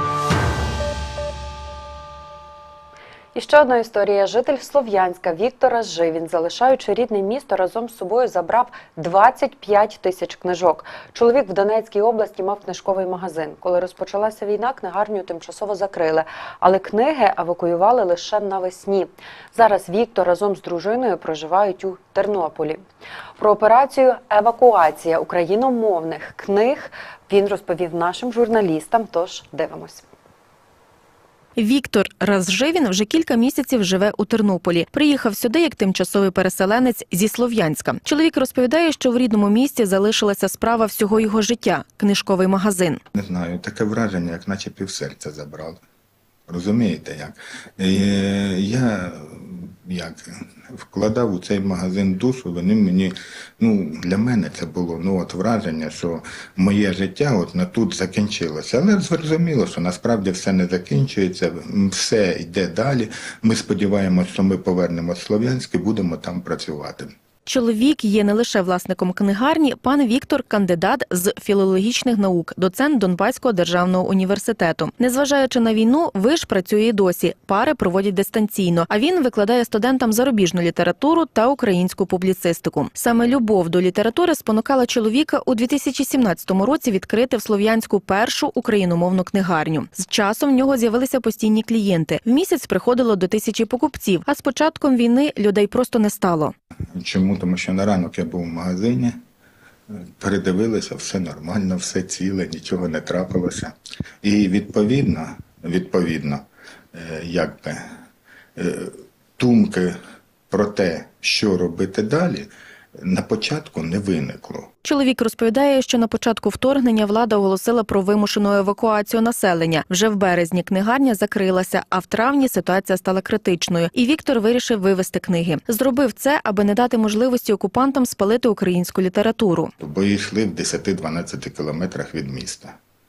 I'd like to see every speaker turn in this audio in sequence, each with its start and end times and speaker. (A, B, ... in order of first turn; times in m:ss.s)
0:03.3-0:22.8 A
0:23.4-0:30.0 A
0:31.6-0:43.0 B
0:43.1-0:45.8 C
0:46.5-1:07.1 C
1:07.4-1:36.5 B
1:36.9-1:39.2 C
1:39.9-1:47.8 C
1:48.6-1:50.0 C
1:50.5-1:54.7 C
1:54.8-2:09.7 B
2:09.8-2:12.8 C